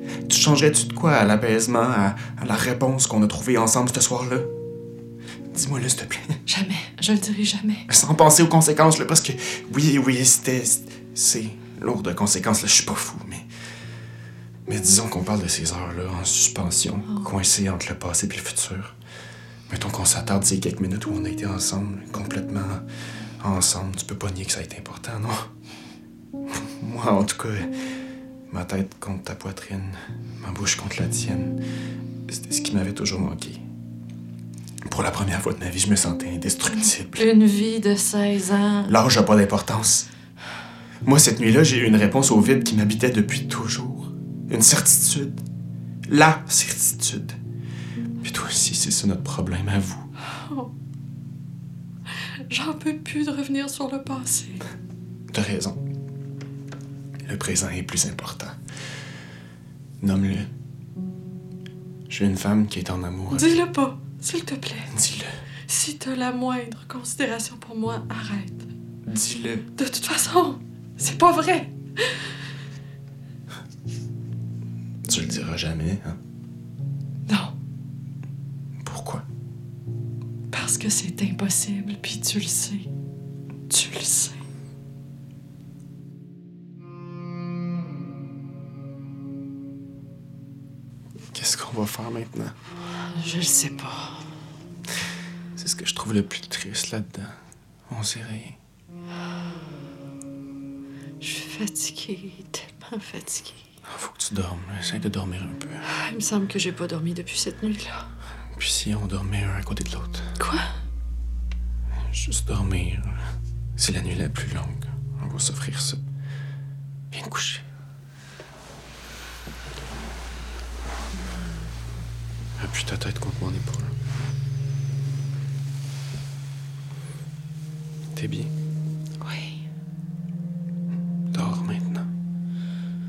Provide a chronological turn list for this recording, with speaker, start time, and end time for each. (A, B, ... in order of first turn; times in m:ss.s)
0:00.2-0:04.5 A
0:05.5-0:06.4 A
0:06.5-0:07.8 B
0:07.9-0:13.4 A
0:14.6-0:18.9 A
0:19.7-0:22.8 A
0:23.4-0:25.5 A
0:26.5-0:27.7 A
0:28.5-0:31.6 A
0:32.3-0:33.6 A
0:34.8-0:37.2 A
0:36.8-0:38.9 B
0:38.9-0:40.1 A
0:41.0-0:45.4 A
0:46.1-0:47.4 A
0:48.2-0:50.1 A
0:50.3-0:50.7 B
0:52.5-0:54.6 B
0:55.3-0:55.8 A
0:57.2-0:58.6 A
1:00.0-1:00.5 A
1:02.1-1:03.6 A
1:03.3-1:04.9 B
1:04.9-1:05.3 A
1:05.7-1:08.7 B
1:09.0-1:09.7 A
1:09.8-1:12.1 B
1:15.0-1:16.2 A
1:17.3-1:17.5 B
1:18.8-1:19.2 A
1:20.5-1:22.9 B
1:23.7-1:24.4 B
1:31.3-1:32.5 A
1:33.1-1:34.2 B
1:35.6-1:37.4 A
1:37.9-1:38.6 A
1:41.2-1:43.6 B
1:43.8-1:45.8 A
1:45.9-1:48.0 B
1:48.5-1:50.3 A
1:50.4-1:50.7 B
1:52.1-1:53.2 A
1:53.8-1:56.0 A
1:57.1-1:57.6 A
2:02.6-2:03.9 A
2:08.1-2:08.5 A
2:09.2-2:09.6 B
2:11.3-2:12.1 A